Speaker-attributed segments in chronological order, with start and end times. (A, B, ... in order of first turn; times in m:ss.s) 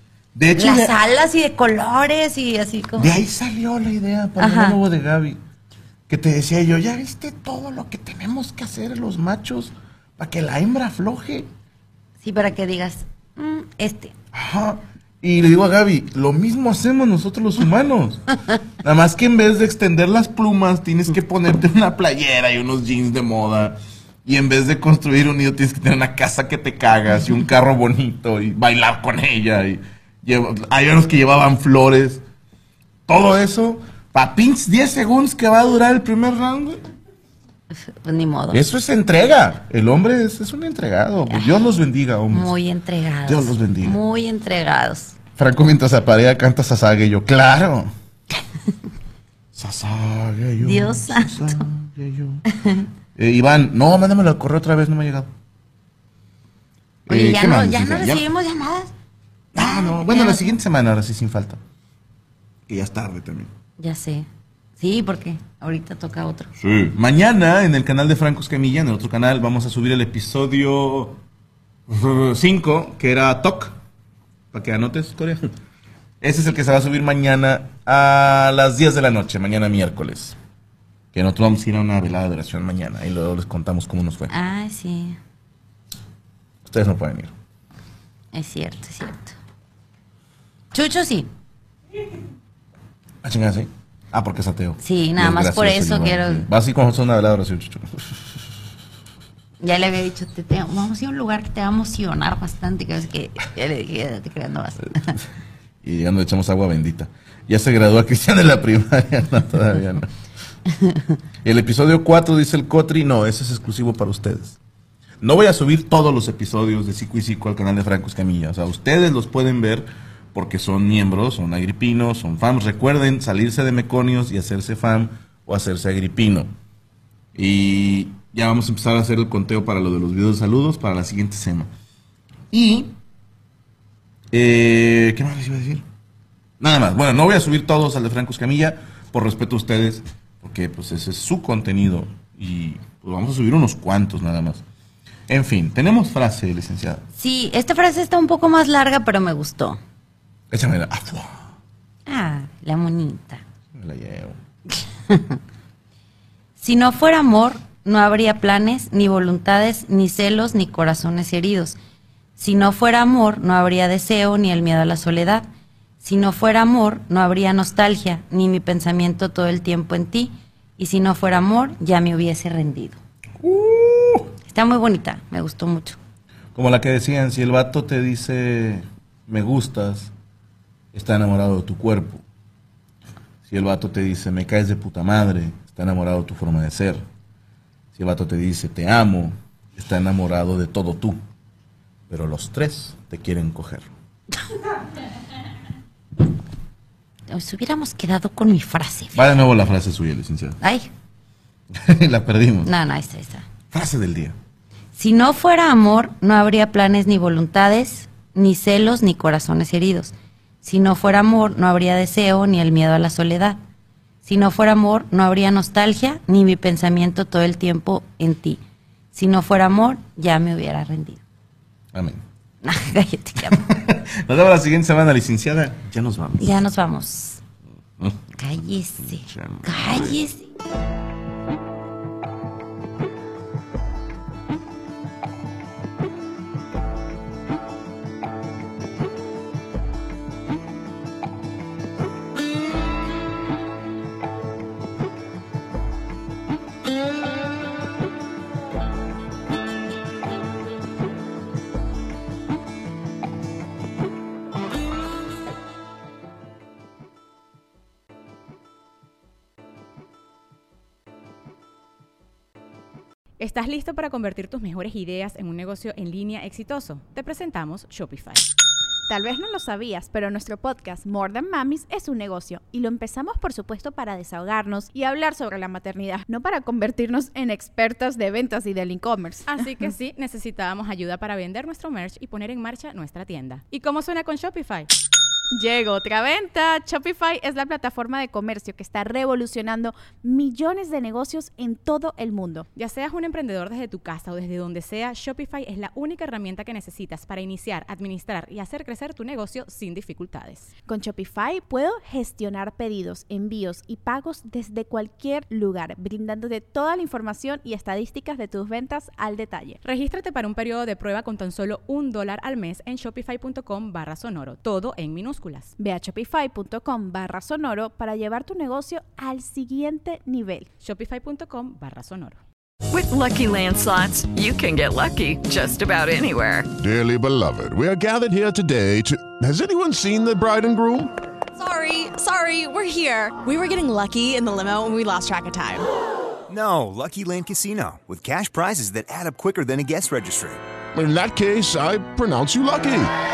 0:00.3-0:01.0 A
0:00.6-0:03.2 B
0:03.0-0:05.4 A
0:04.4-0:04.8 B
0:06.1-0:11.5 A
0:12.2-0:14.1 B
0:14.3-0:18.2 A
0:18.8-0:32.2 A
0:33.1-0:36.9 A
0:37.7-0:38.6 B
0:38.5-0:42.5 A
0:41.3-0:41.6 B
0:42.3-0:45.2 B
0:43.3-0:44.0 A
0:45.4-0:47.9 A
0:49.5-0:52.4 A
0:50.6-0:51.7 B
0:52.6-0:52.9 B
0:53.2-0:55.3 A
0:57.1-0:58.3 A
0:57.1-0:58.9 B
0:59.5-1:01.6 A
0:59.6-1:00.5 B
1:02.7-1:03.5 A
1:03.8-1:04.3 B
1:04.8-1:06.5 B
1:06.6-1:11.2 A
1:11.9-1:13.8 A
1:14.5-1:15.5 A
1:16.2-1:20.4 A
1:21.1-1:24.3 A
1:24.3-1:25.2 B
1:26.6-1:27.3 A
1:28.3-1:29.4 B
1:30.7-1:31.3 B
1:33.2-1:38.3 A
1:34.8-1:36.5 B
1:39.6-1:45.2 B
1:45.8-1:50.1 A
1:51.4-1:54.6 A
1:55.2-2:06.5 A
2:07.4-2:11.7 A
2:12.5-2:12.9 A
2:14.3-2:15.8 A
2:16.6-2:24.6 A
2:25.3-2:27.0 A
2:27.2-2:29.8 B
2:30.5-2:31.4 A
2:32.1-2:33.4 B
2:33.7-2:34.4 A
2:34.7-2:35.4 B
2:36.6-2:41.8 B
2:42.4-2:45.5 B
2:46.0-2:53.0 B
2:53.4-2:54.3 A
2:54.5-2:56.0 B
2:56.6-3:00.1 A
3:00.9-3:02.2 A
3:03.5-3:07.0 A
3:07.9-3:11.2 A
3:12.1-3:13.9 A
3:17.3-3:19.3 B
3:19.2-3:20.6 A
3:20.6-3:20.9 B
3:21.7-3:22.7 A
3:22.6-3:23.5 B
3:23.7-3:24.4 A
3:25.0-3:33.6 B
3:34.2-3:38.6 B
3:39.1-3:41.2 B
3:41.9-3:42.2 A
3:42.6-3:43.7 B
3:43.4-3:46.6 A
3:46.4-3:47.4 B
3:48.0-3:48.2 A
3:48.4-3:50.4 B
3:49.1-3:50.2 A
4:23.4-4:28.5 C
4:29.1-4:39.7 D
4:39.5-4:44.9 C
4:45.5-4:52.7 D
4:52.8-5:00.7 C
5:00.9-5:09.8 D
5:09.8-5:15.7 C
5:15.8-5:20.7 D
5:20.8-5:22.4 C
5:22.9-5:26.7 E
5:26.8-5:31.1 F
5:31.6-5:35.8 G
5:36.5-5:40.6 H
5:40.9-5:43.1 F